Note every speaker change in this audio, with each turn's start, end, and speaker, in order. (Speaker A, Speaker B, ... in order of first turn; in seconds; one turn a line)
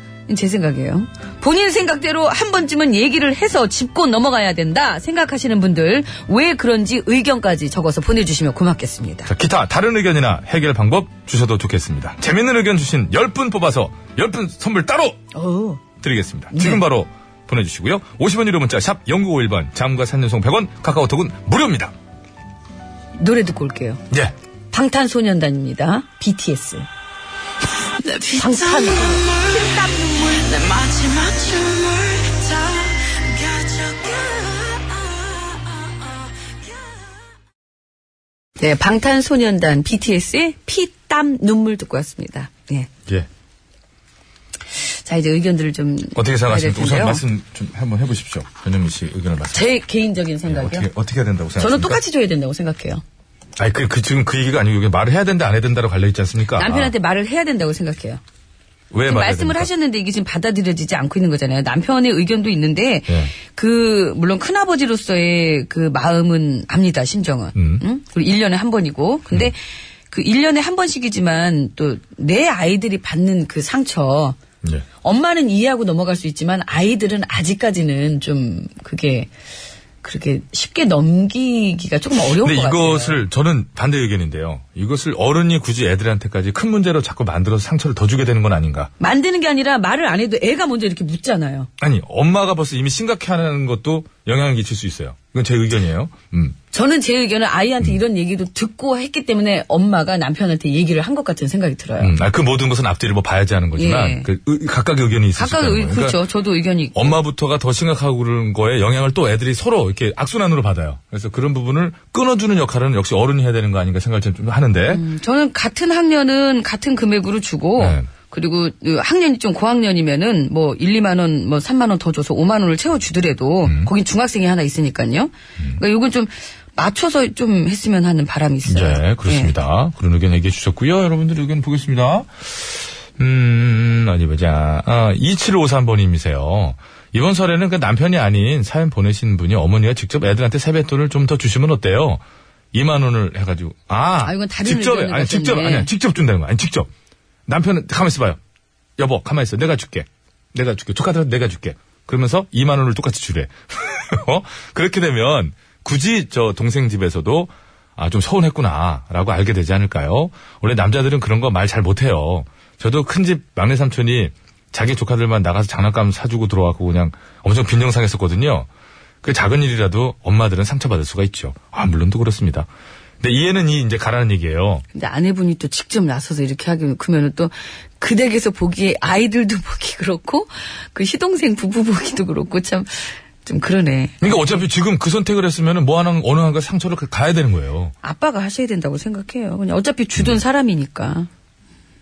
Speaker A: 0.3-9.3
Speaker B: 9.3-15.2
Speaker A: 15.3-15.8
Speaker B: 16.0-21.9
Speaker A: 16.5-16.8
Speaker A: 23.2-24.0
Speaker A: 24.7-26.9
Speaker A: 28.0-31.8
Speaker A: 32.4-32.7
Speaker A: 33.4-34.1
Speaker A: 38.6-42.9
Speaker A: 45.0-47.2
Speaker B: 46.1-49.6
Speaker A: 49.5-50.9
Speaker B: 50.5-52.0
Speaker A: 51.6-53.0
Speaker B: 53.6-56.9
Speaker A: 56.6-58.2
Speaker B: 58.9-59.7
Speaker A: 59.0-69.6
Speaker B: 63.1-63.3
Speaker B: 67.5-67.8
Speaker A: 70.1-74.4
Speaker A: 75.0-79.3
Speaker A: 80.0-83.2
Speaker B: 82.4-88.9
Speaker A: 89.0-91.7
Speaker B: 91.8-96.6
Speaker A: 96.7-102.1
Speaker B: 102.0-106.2
Speaker A: 103.7-104.3
Speaker A: 105.3-107.2
Speaker B: 106.9-115.0
Speaker A: 114.9-129.5
Speaker B: 117.8-118.1
Speaker B: 123.6-123.9
Speaker B: 128.7-142.2
Speaker B: 142.7-146.9
Speaker A: 144.2-145.9
Speaker B: 147.5-148.4
Speaker B: 149.0-168.7
Speaker B: 169.2-172.7
Speaker B: 173.2-174.8
Speaker A: 174.9-184.6
Speaker B: 184.2-187.9
Speaker A: 188.0-191.3